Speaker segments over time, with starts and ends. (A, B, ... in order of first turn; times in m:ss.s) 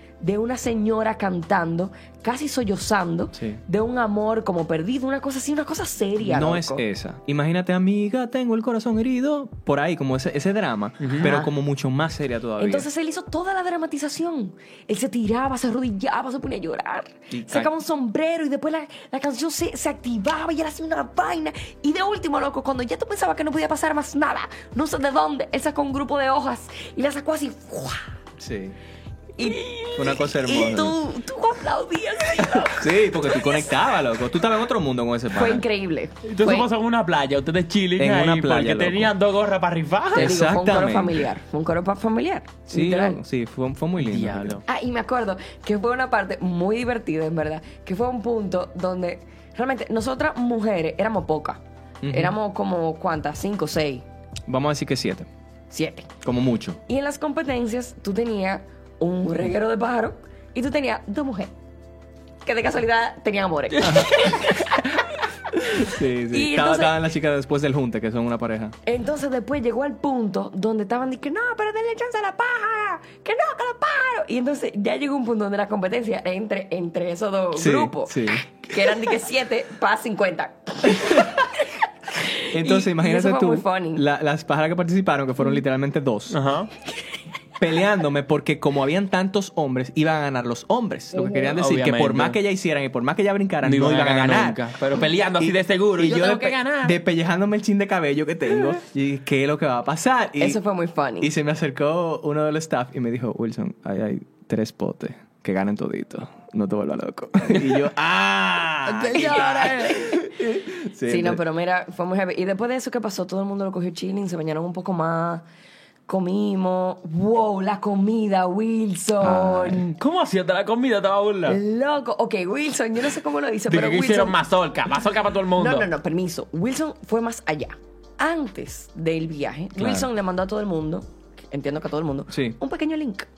0:00.2-0:06.8 A
0:06.2-0:12.9 B
0:11.0-0:11.3 C
0:11.2-0:11.5 A
0:12.6-0:28.1 A
0:17.3-0:17.7 B
0:28.4-0:28.8 B
0:29.4-0:33.8 A
0:29.4-0:31.0 B
0:32.6-0:35.6 B
0:35.3-0:36.7 A
0:36.2-0:40.4 C
0:38.0-0:39.1 B
0:40.1-0:41.3 B
0:40.2-0:43.2 A
0:42.7-0:44.6 B
0:44.0-0:44.6 C
0:44.6-0:54.0 A
0:52.0-0:52.4 B
0:54.5-0:55.3 B
0:55.7-0:56.1 A
0:56.2-0:56.8 B
0:56.9-1:01.5 A
1:02.4-1:07.0 A
1:03.8-1:04.2 B
1:05.5-1:08.8 B
1:08.8-1:24.0 A
1:17.5-1:18.4 B
1:20.9-1:21.3 B
1:22.5-1:26.4 B
1:26.3-1:26.7 C
1:27.6-1:34.6 B
1:31.2-1:31.5 A
1:31.4-1:32.4 C
1:33.6-1:37.0 C
1:35.4-1:40.6 B
1:40.4-1:41.3 A
1:41.2-1:51.4 B
1:48.8-1:50.4 A
1:51.0-1:55.4 A
1:56.1-1:59.8 A
1:59.2-1:59.8 B
1:59.7-2:01.6 C
2:01.5-2:04.4 A
2:03.7-2:05.9 C
2:05.6-2:13.3 A
2:09.8-2:10.1 B
2:12.3-2:12.6 B